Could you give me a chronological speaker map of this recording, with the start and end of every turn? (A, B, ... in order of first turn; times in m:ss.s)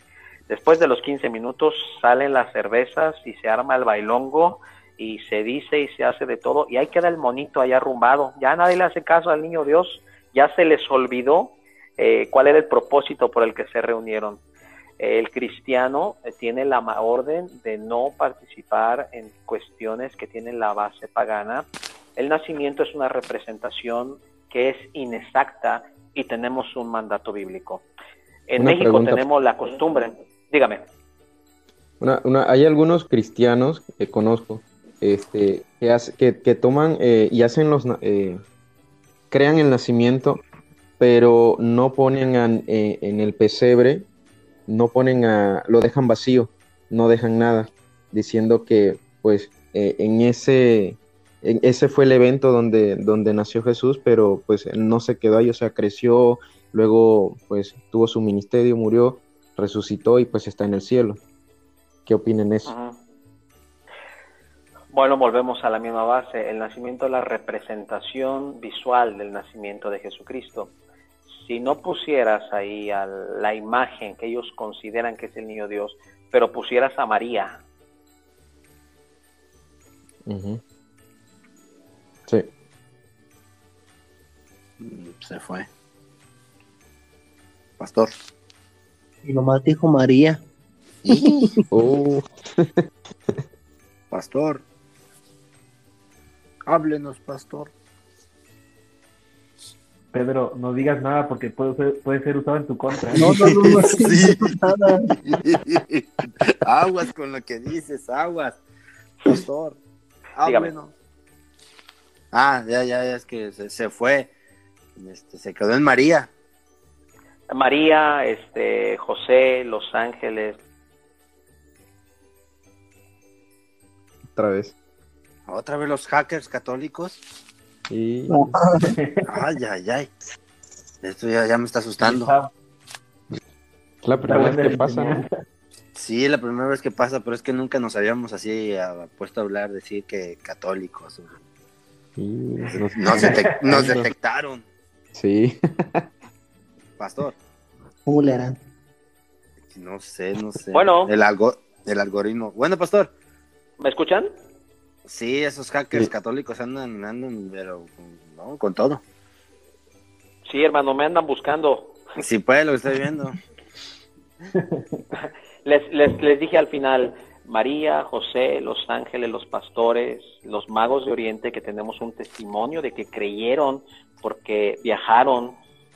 0:00.5-0:14.4 A
0:15.0-0:27.8 A
0:28.5-0:30.9 A
0:28.6-0:29.2 B
0:32.0-0:38.4 B
0:39.3-0:40.4 B
0:41.0-0:44.1 B
0:44.7-1:01.2 B
1:02.1-1:02.7 B
1:02.6-1:03.0 A
1:04.9-1:10.7 A
1:11.3-1:17.6 A
1:20.3-1:20.6 B
1:24.8-1:25.7 C
1:27.8-1:28.1 C
1:29.2-1:30.4 D
1:31.0-1:31.6 C
1:31.1-1:31.6 D
1:31.7-1:32.7 B
1:34.1-1:34.6 C
1:36.7-1:37.7 C
1:40.1-1:43.6 E
1:43.1-1:44.6 C
1:43.1-1:45.2 D
1:45.1-1:48.6 C
1:49.2-1:49.8 C
1:50.4-1:50.9 C
1:50.4-1:50.7 A
1:52.3-1:54.3 C
1:55.0-1:56.3 C
1:57.5-2:00.6 A
2:04.4-2:04.7 B
2:05.5-2:07.2 C
2:07.9-2:08.5 B
2:08.3-2:08.9 D
2:09.0-2:09.3 E
2:09.3-2:10.1 C
2:11.0-2:12.4 C
2:12.0-2:12.5 E
2:14.0-2:15.2 B
2:14.2-2:15.3 E
2:16.0-2:21.3 C
2:22.2-2:24.1 B
2:22.9-2:24.6 C
2:23.1-2:23.5 E
2:25.2-2:26.1 B
2:27.0-2:27.4 C
2:28.1-2:28.6 D
2:29.7-2:33.1 C
2:30.7-2:31.1 A
2:33.8-2:34.3 A
2:35.1-2:39.0 C
2:40.5-2:42.0 A
2:42.2-2:43.4 C
2:45.6-2:55.6 A